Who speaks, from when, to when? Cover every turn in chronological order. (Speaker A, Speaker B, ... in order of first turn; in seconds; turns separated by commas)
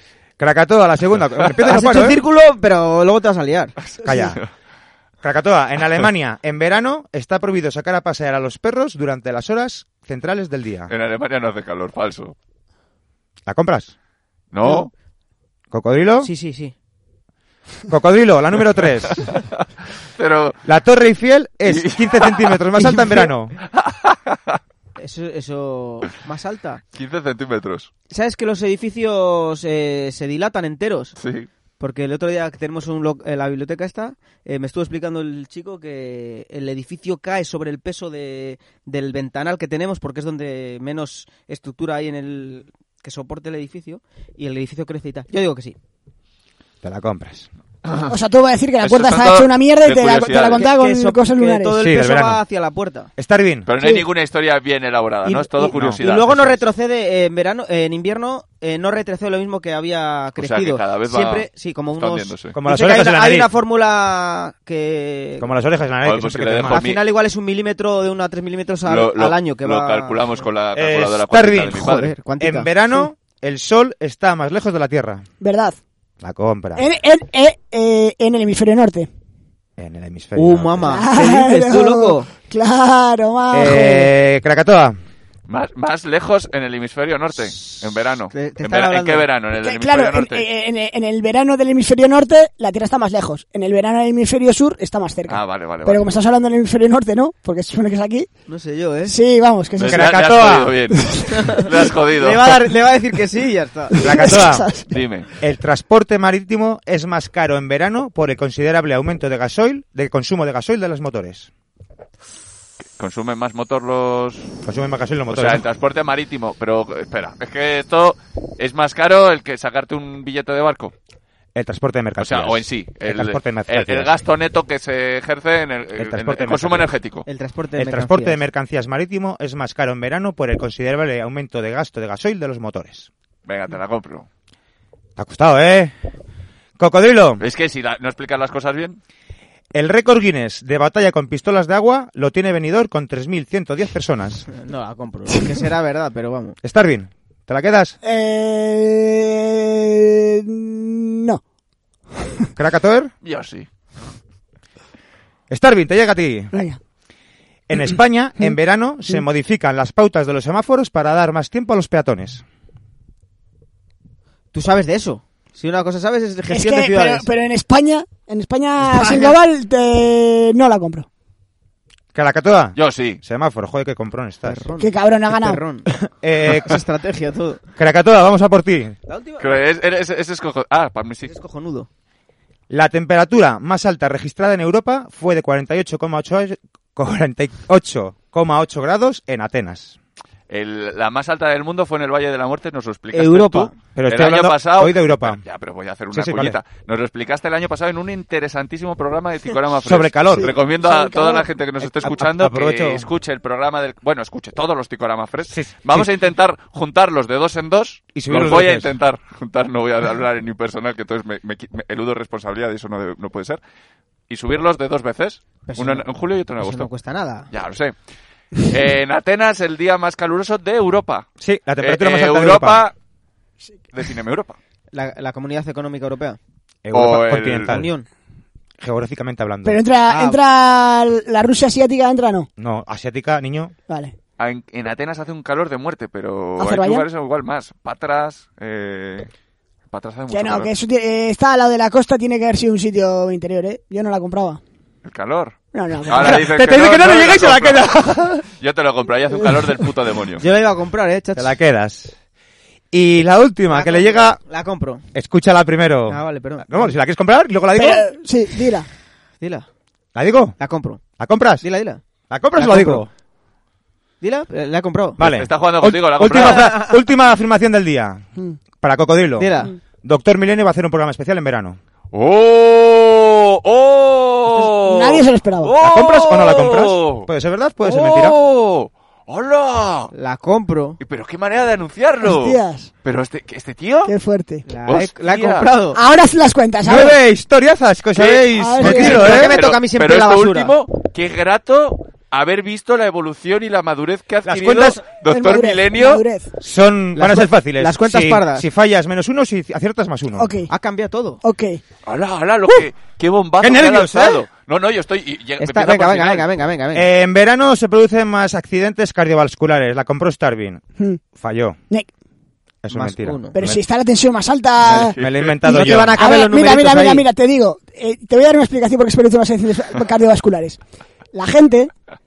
Speaker A: 0.4-2.2, Speaker B: 1.6-3.7, Speaker C: 3.8-4.5, Speaker A: 4.0-4.4, Speaker A: 5.2-10.9, Speaker C: 10.9-12.3, Speaker A: 13.5-13.9, Speaker C: 14.5-14.9, Speaker A: 15.7-16.3, Speaker B: 16.2-16.7, Speaker A: 17.9-19.2, Speaker C: 19.1-19.4, Speaker C: 20.1-20.6, Speaker A: 20.6-23.5, Speaker C: 21.6-22.6, Speaker B: 22.8-23.3, Speaker C: 23.7-24.6, Speaker B: 25.0-26.8, Speaker C: 26.9-27.9, Speaker B: 28.1-31.1, Speaker C: 31.2-31.5, Speaker B: 31.8-45.8, Speaker A: 46.8-47.5, Speaker D: 48.1-51.8, Speaker C: 48.8-50.7, Speaker B: 50.5-53.1, Speaker A: 51.8-52.4, Speaker A: 53.2-53.7, Speaker C: 53.6-56.6, Speaker B: 55.2-65.5, Speaker A: 55.7-56.0, Speaker C: 60.4-61.5, Speaker C: 62.0-62.6, Speaker A: 62.5-63.5, Speaker A: 65.4-66.9, Speaker C: 66.0-67.0, Speaker B: 66.7-70.4, Speaker C: 68.8-72.1, Speaker A: 70.7-71.9, Speaker B: 71.8-73.0, Speaker A: 72.4-75.2, Speaker D: 75.4-75.8, Speaker A: 76.2-76.8, Speaker D: 76.7-79.1, Speaker A: 79.8-80.8, Speaker B: 80.3-82.3, Speaker D: 80.8-84.1, Speaker A: 83.5-85.0, Speaker C: 85.5-90.4, Speaker B: 88.3-89.3, Speaker D: 89.6-98.3, Speaker C: 95.3-96.1, Speaker B: 98.5-99.2, Speaker D: 99.0-100.0, Speaker C: 99.8-102.6, Speaker A: 99.8-100.7, Speaker D: 101.0-101.3, Speaker B: 101.3-101.6, Speaker B: 102.2-104.1, Speaker A: 104.0-104.7, Speaker D: 104.0-104.9, Speaker C: 104.9-105.3, Speaker A: 105.4-111.5, Speaker C: 113.0-114.5, Speaker A: 114.6-115.6, Speaker C: 115.3-120.9, Speaker A: 121.5-124.1, Speaker C: 122.2-127.2, Speaker A: 126.0-126.9, Speaker B: 127.2-128.4, Speaker A: 127.8-133.1, Speaker C: 133.4-134.3, Speaker A: 135.2-135.9, Speaker A: 136.8-137.4, Speaker C: 137.4-139.0, Speaker A: 139.7-144.5, Speaker B: 144.5-146.6, Speaker A: 146.6-147.9, Speaker D: 148.0-151.4, Speaker A: 152.6-153.1, Speaker C: 153.2-153.7, Speaker A: 155.5-156.5, Speaker D: 156.5-156.8, Speaker A: 157.7-162.4, Speaker B: 164.5-167.3, Speaker D: 166.5-171.1, Speaker B: 168.8-169.3, Speaker A: 172.1-174.6, Speaker C: 172.8-173.2, Speaker B: 174.4-175.9, Speaker D: 174.8-175.6, Speaker A: 176.0-176.8, Speaker B: 176.5-177.6, Speaker A: 177.8-178.9, Speaker B: 179.1-179.6, Speaker C: 179.4-181.3, Speaker B: 181.2-181.9, Speaker A: 182.7-189.9, Speaker C: 190.5-213.6, Speaker B: 193.1-193.7, Speaker A: 193.9-195.4, Speaker A: 196.1-196.6, Speaker A: 199.8-200.6, Speaker D: 200.3-201.4, Speaker A: 201.8-203.1, Speaker A: 205.5-206.1, Speaker A: 208.1-208.9, Speaker C: 214.3-216.9, Speaker B: 215.7-216.0, Speaker B: 216.6-217.5, Speaker C: 217.5-217.9, Speaker C: 218.5-221.2, Speaker A: 221.4-222.8, Speaker C: 221.8-222.9, Speaker C: 223.9-224.6, Speaker B: 224.9-226.4, Speaker A: 226.8-227.9, Speaker C: 226.9-227.7, Speaker B: 227.7-228.1, Speaker A: 228.8-229.8, Speaker D: 229.6-232.5, Speaker B: 230.1-230.4, Speaker A: 232.6-233.7, Speaker D: 233.9-234.1, Speaker C: 234.4-239.3, Speaker D: 236.6-237.1, Speaker C: 239.9-240.7, Speaker D: 240.3-244.6, Speaker C: 245.0-245.5, Speaker D: 245.7-246.4, Speaker C: 246.1-247.9, Speaker A: 246.1-248.4, Speaker C: 248.6-250.4, Speaker B: 250.4-251.5, Speaker A: 251.3-252.1, Speaker A: 252.9-254.4, Speaker B: 253.7-255.0, Speaker A: 255.1-258.1, Speaker B: 256.1-256.9, Speaker D: 257.8-258.9, Speaker B: 259.4-259.6, Speaker A: 260.1-260.6, Speaker B: 260.6-261.0, Speaker A: 261.2-261.6, Speaker B: 261.6-262.0, Speaker A: 262.3-263.1, Speaker B: 262.6-263.0, Speaker B: 264.2-265.2, Speaker A: 265.2-268.2, Speaker C: 265.2-266.7, Speaker B: 266.3-266.9, Speaker A: 268.8-271.8, Speaker B: 269.4-269.7, Speaker C: 272.1-277.3, Speaker B: 274.5-274.9, Speaker D: 274.8-275.7, Speaker A: 275.8-278.4, Speaker C: 277.8-280.1, Speaker B: 280.1-281.0, Speaker C: 281.0-284.1, Speaker D: 282.2-282.9, Speaker D: 284.1-284.6, Speaker B: 284.7-286.0, Speaker C: 284.9-285.7, Speaker D: 285.9-287.1, Speaker A: 286.8-289.5, Speaker C: 288.1-296.2, Speaker D: 288.6-289.2, Speaker B: 288.8-290.7, Speaker A: 294.4-295.0, Speaker D: 295.2-296.5, Speaker A: 296.6-300.5, Speaker B: 297.1-298.6, Speaker D: 300.4-300.7, Speaker B: 300.7-301.4, Speaker D: 301.4-301.8, Speaker C: 302.0-306.5, Speaker A: 303.6-304.4, Speaker B: 305.6-307.1, Speaker A: 306.9-310.8, Speaker A: 311.3-311.8, Speaker A: 312.8-313.8, Speaker B: 312.9-313.5, Speaker D: 313.5-315.1, Speaker A: 314.9-316.2, Speaker C: 314.9-316.0, Speaker B: 315.6-317.2, Speaker D: 316.1-320.8, Speaker D: 321.3-321.9